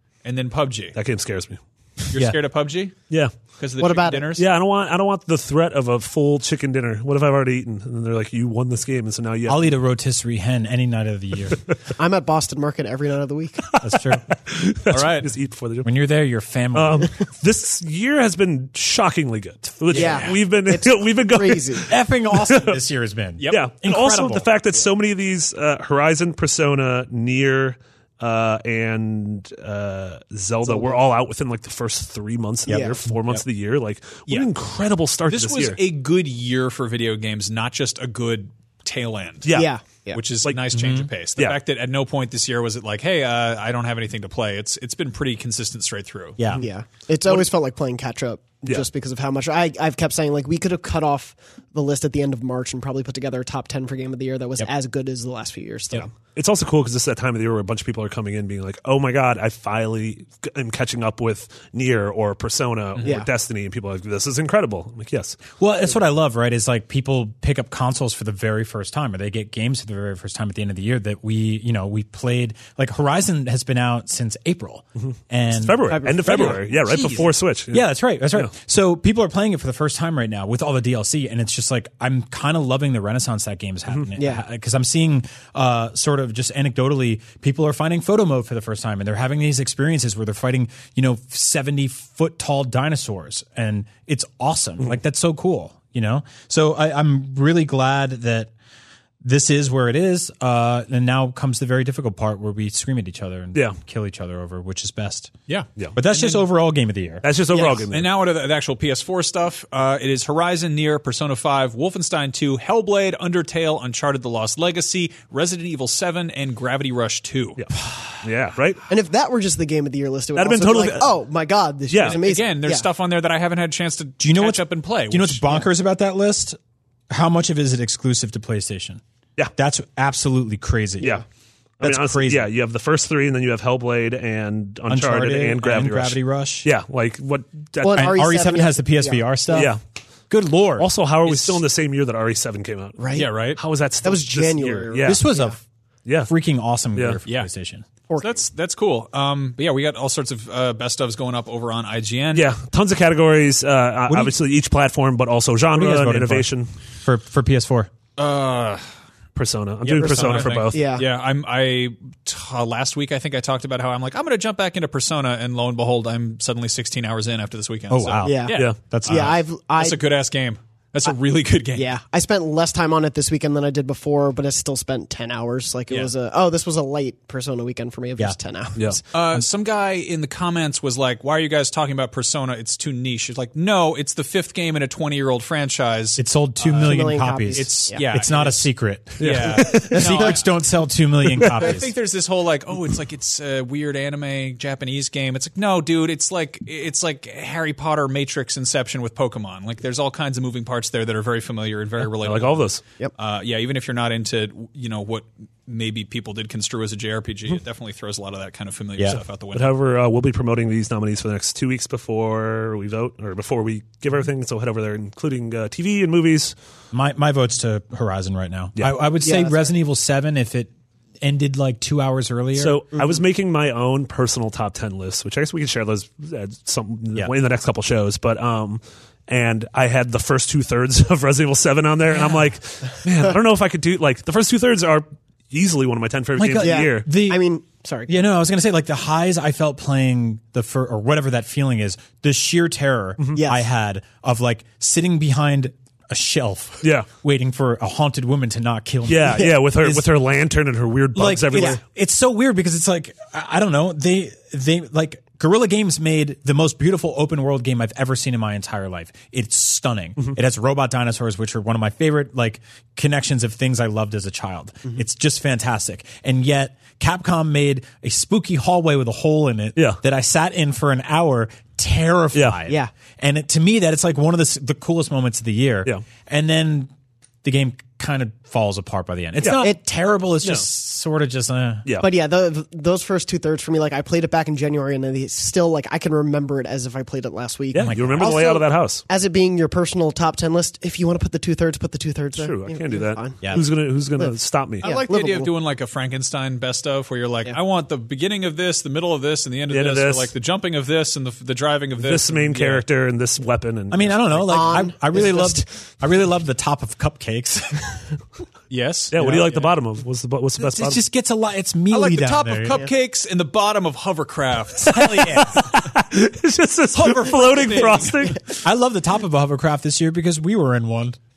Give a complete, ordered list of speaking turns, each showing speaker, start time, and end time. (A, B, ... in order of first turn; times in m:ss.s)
0:00.2-0:01.0 A
0:00.9-0:02.1 B
0:02.1-0:04.5 A
0:03.8-0:04.3 C
0:04.4-0:09.7 B
0:09.5-0:11.6 D
0:12.0-0:13.8 C
0:13.7-0:15.9 B
0:13.8-0:14.2 D
0:14.9-0:15.3 A
0:15.8-0:17.1 D
0:16.7-0:22.8 B
0:19.9-0:21.9 C
0:19.9-0:20.4 A
0:21.9-0:24.5 D
0:23.4-0:23.6 A
0:23.5-0:35.8 B
0:30.6-0:31.0 C
0:32.7-0:33.0 C
0:35.3-0:39.6 A
0:39.4-0:39.7 B
0:39.5-0:40.2 C
0:40.1-0:46.4 A
0:40.7-0:41.1 D
0:46.4-0:46.6 D
0:46.6-0:56.1 C
0:56.1-1:05.5 B
1:03.0-1:03.3 C
1:05.6-1:38.5 D
1:15.0-1:18.5 B
1:15.9-1:16.6 C
1:17.0-1:17.2 A
1:24.2-1:24.4 C
1:39.2-1:45.3 D
1:45.5-1:46.4 A
1:45.9-1:47.2 D
1:47.2-1:48.1 B
1:47.5-1:57.6 A
1:57.6-1:58.8 B
1:58.9-2:02.8 C
2:00.3-2:01.1 B
2:01.9-2:02.2 B
2:02.0-2:05.4 A
2:04.2-2:06.6 D
2:07.1-2:09.0 D
2:09.5-2:11.2 D
2:11.8-2:18.2 B
2:11.8-2:12.5 D
2:14.9-2:16.7 D
2:17.8-2:19.7 C
2:17.9-2:19.7 D
2:19.5-2:19.8 B
2:20.3-2:20.9 D
2:20.8-2:23.0 B
2:21.2-2:21.6 A
2:23.0-2:23.3 C
2:23.1-2:23.6 A
2:23.6-2:25.2 B
2:24.0-2:25.6 C
2:25.0-2:25.6 D
2:26.2-2:27.8 D
2:28.1-2:28.3 C
2:28.2-2:32.5 A
2:32.3-2:36.7 B
2:34.1-2:34.4 D
2:35.8-2:36.5 D
2:37.0-2:37.9 D
2:38.2-2:38.9 A
2:39.3-2:40.8 B
2:39.8-2:51.9 A
2:40.2-2:41.1 C
2:47.9-2:49.4 D
2:48.2-2:50.0 C
2:51.7-2:59.0 C
2:59.1-3:06.2 A
3:06.2-3:11.9 D
3:06.6-3:08.0 C
3:07.5-3:10.5 A
3:09.2-3:10.1 B
3:11.5-3:29.7 A
3:22.2-3:22.8 B
3:29.5-3:36.5 B
3:36.9-3:42.8 D
3:39.2-3:39.7 C
3:42.5-3:57.1 B
3:56.4-3:57.4 D
3:56.6-3:58.1 C
3:58.1-4:10.1 D
4:03.4-4:03.6 C
4:06.8-4:07.1 B
4:09.0-4:11.8 B
4:11.1-4:36.9 D
4:29.8-4:30.0 B
4:37.4-4:41.9 D
4:39.4-4:39.7 B
4:42.0-4:55.5 C
4:47.7-4:49.0 B
4:47.8-4:48.4 D
4:52.4-4:54.9 B
4:54.8-5:02.8 A
4:59.7-5:00.3 B
5:02.0-5:04.4 B
5:03.9-5:08.0 D
5:04.5-5:05.7 C
5:08.7-5:09.7 A
5:09.1-5:11.0 B
5:09.2-5:09.4 D
5:10.6-5:12.8 D
5:11.9-5:15.0 A
5:14.9-5:15.7 D
5:14.9-5:18.6 B
5:16.9-5:18.4 A
5:18.6-5:21.2 D